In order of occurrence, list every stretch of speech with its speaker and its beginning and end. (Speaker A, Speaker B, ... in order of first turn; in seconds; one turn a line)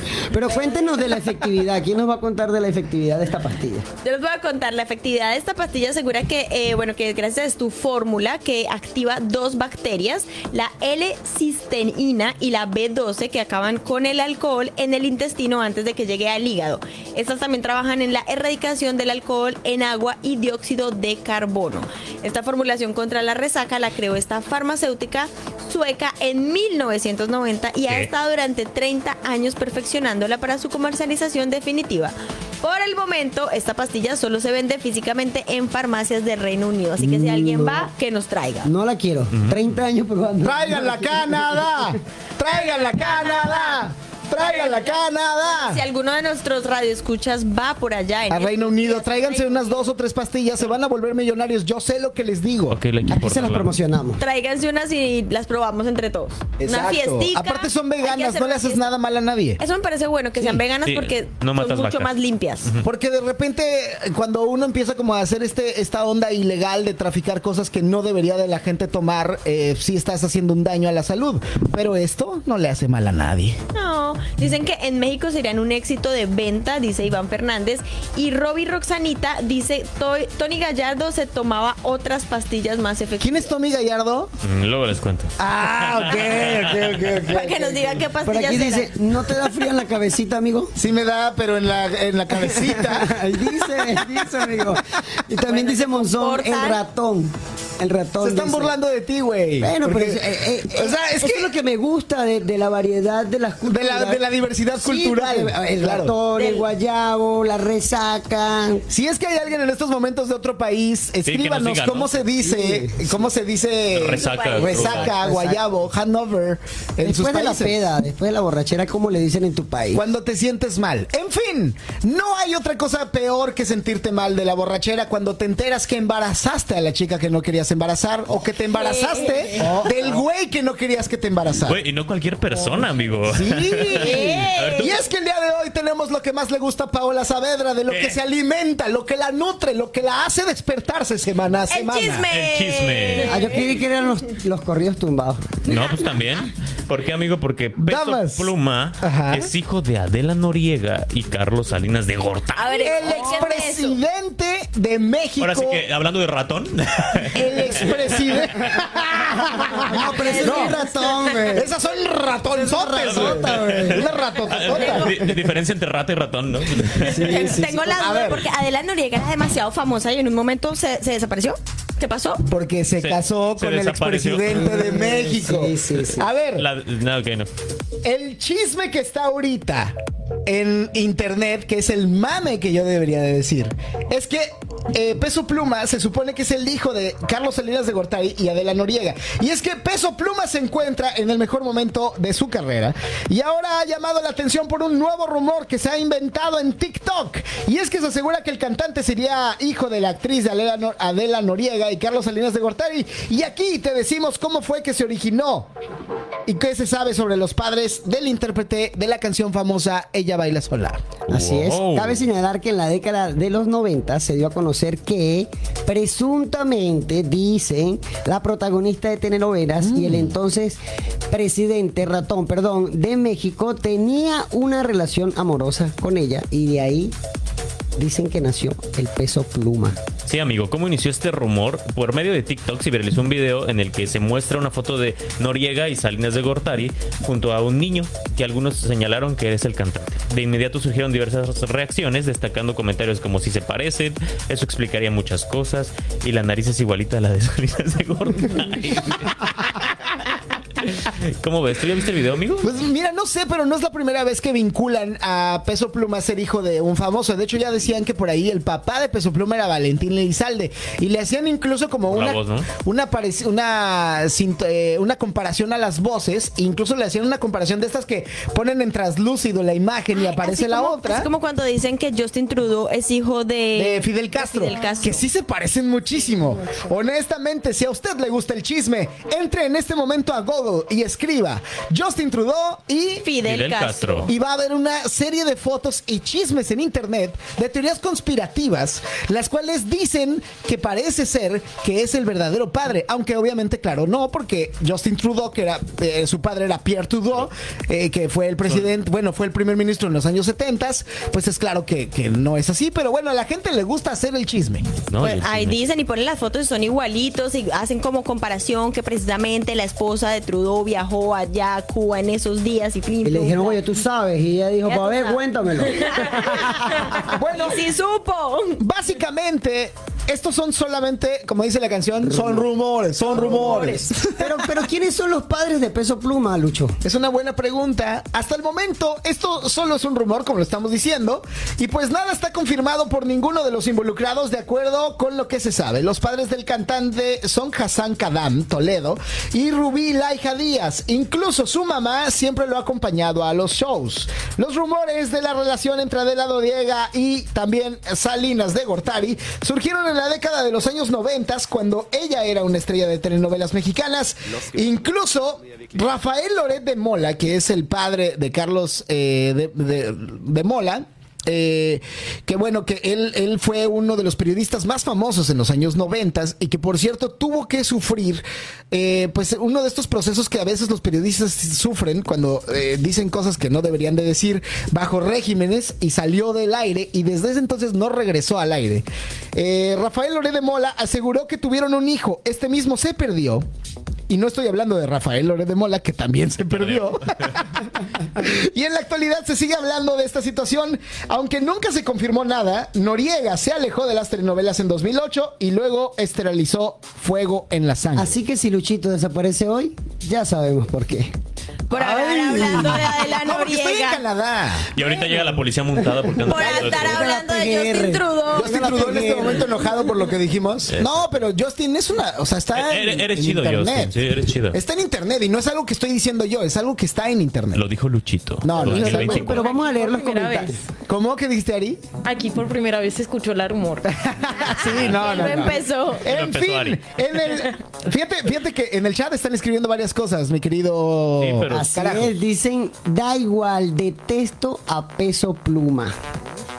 Speaker A: 0.2-3.9
Speaker B: 4.0-38.7
Speaker A: 37.0-37.9
Speaker A: 38.6-41.8
Speaker C: 39.3-39.7
Speaker D: 40.4-45.8
Speaker B: 43.0-43.8
Speaker B: 44.4-49.9
Speaker D: 48.3-52.8
Speaker C: 52.7-53.7
Speaker A: 53.1-54.2
Speaker B: 54.2-58.9
Speaker D: 56.6-59.6
Speaker B: 59.6-62.7
Speaker C: 60.8-62.1
Speaker D: 62.8-73.6
Speaker B: 73.7-83.5
Speaker D: 83.2-84.3
Speaker C: 84.4-87.1
Speaker D: 85.4-88.0
Speaker B: 87.3-88.9
Speaker A: 88.2-90.7
Speaker D: 90.8-94.4
Speaker A: 92.3-98.8
Speaker B: 95.4-96.8
Speaker D: 98.2-101.5
Speaker A: 99.6-104.2
Speaker D: 103.6-106.1
Speaker A: 104.7-108.8
Speaker B: 106.3-106.7
Speaker D: 108.9-117.8
Speaker C: 111.2-112.2
Speaker A: 112.4-113.3
Speaker C: 113.9-115.1
Speaker B: 114.2-114.9
Speaker A: 114.7-115.6
Speaker A: 117.0-120.0
Speaker D: 119.9-131.8
Speaker B: 128.7-129.8
Speaker A: 129.6-129.9
Speaker C: 131.7-134.9
Speaker D: 133.3-142.3
Speaker B: 134.0-134.9
Speaker C: 137.9-138.2
Speaker B: 141.7-143.7
Speaker C: 142.3-143.4
Speaker A: 143.2-145.5
Speaker C: 145.6-153.3
Speaker B: 145.7-146.1
Speaker D: 147.8-149.5
Speaker B: 152.6-154.0
Speaker D: 152.8-155.8
Speaker C: 155.4-158.2
Speaker D: 157.3-160.8
Speaker A: 159.8-161.7
Speaker B: 159.9-161.6
Speaker D: 161.5-165.2
Speaker A: 162.5-164.1
Speaker C: 163.0-167.3
Speaker B: 164.7-165.1
Speaker A: 167.0-168.1
Speaker B: 167.3-172.4
Speaker D: 167.4-168.5
Speaker D: 172.5-176.7
Speaker C: 173.0-174.7
Speaker A: 174.5-176.3
Speaker C: 176.5-177.5
Speaker D: 178.0-205.7
Speaker D: 206.4-211.0
Speaker C: 211.3-212.2
Speaker A: 211.3-227.1
Speaker D: 219.8-220.2
Speaker A: 228.0-230.0
Speaker C: 230.2-249.9
Speaker C: 250.8-252.8
Speaker D: 252.6-271.3
Speaker C: 262.1-262.7
Speaker B: 270.2-275.2
Speaker D: 273.8-283.2
Speaker B: 283.2-284.3
Speaker C: 283.4-284.3
Speaker D: 284.3-304.9
Speaker C: 305.1-305.9
Speaker B: 305.2-313.8
Speaker A: 313.2-317.2
Speaker B: 314.8-318.8
Speaker D: 317.2-317.9
Speaker D: 318.8-324.6
Speaker A: 322.2-322.6
Speaker B: 323.3-324.1
Speaker A: 323.3-327.0
Speaker D: 327.0-383.6
Speaker D: 384.3-398.3
Speaker C: 386.7-387.4
Speaker A: 398.1-401.3
Speaker B: 401.9-404.2
Speaker D: 401.9-404.9
Speaker C: 404.9-407.2
Speaker A: 406.1-409.8
Speaker B: 406.4-408.9
Speaker D: 408.5-417.8
Speaker C: 410.9-411.2
Speaker C: 412.7-414.8
Speaker C: 417.7-419.7
Speaker D: 418.6-419.5
Speaker A: 418.8-420.8
Speaker E: 419.4-420.8
Speaker D: 421.1-422.0
Speaker E: 422.2-424.1
Speaker D: 424.1-432.3
Speaker B: 424.6-426.2
Speaker C: 424.8-425.5
Speaker C: 426.2-427.0
Speaker C: 431.4-431.9
Speaker A: 431.7-436.1